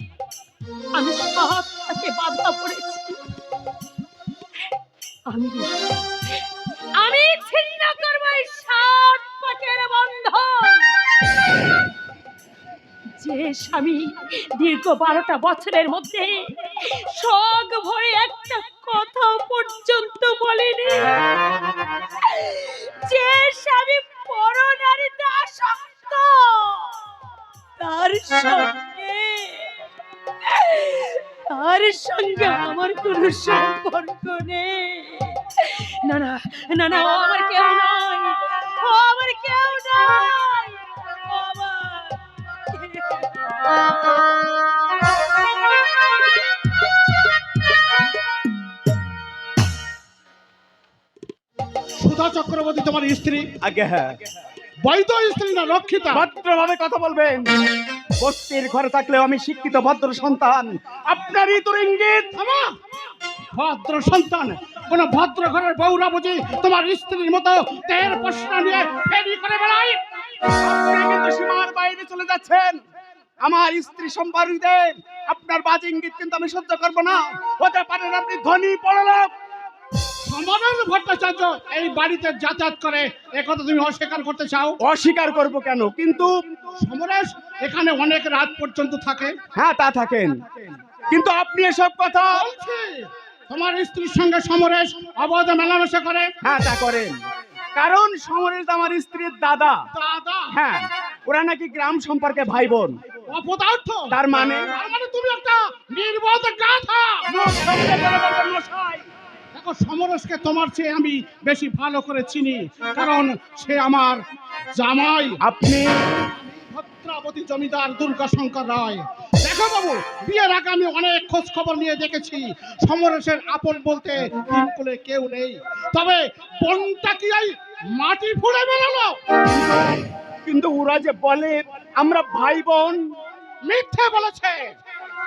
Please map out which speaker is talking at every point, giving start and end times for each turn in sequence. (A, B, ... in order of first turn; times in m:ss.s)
0:01.0-0:03.3 A
0:05.3-0:05.7 A
0:07.0-0:10.9 A
0:13.2-0:21.1 A
0:22.2-0:27.0 A
0:27.8-0:29.7 A
0:30.4-0:43.3 A
0:52.0-0:53.5 B
0:53.6-0:54.2 C
0:54.8-0:56.2 B
0:56.1-0:57.5 C
0:58.2-1:02.3 C
1:02.4-1:02.7 B
1:03.5-1:10.0 B
1:10.5-1:12.8 C
1:13.4-1:19.3 C
1:20.2-1:24.8 B
1:24.8-1:26.4 C
1:26.8-1:29.4 B
1:29.6-1:32.4 C
1:32.3-1:36.3 B
1:36.4-1:37.2 C
1:37.8-1:39.8 C
1:39.9-1:40.5 B
1:40.5-1:43.0 C
1:43.3-1:47.3 B
1:44.1-1:44.7 C
1:47.3-1:49.0 C
1:49.5-1:54.2 B
1:54.8-1:55.4 B
1:55.4-1:56.0 C
1:56.4-2:09.2 B
2:09.5-2:13.0 C
2:13.6-2:14.7 B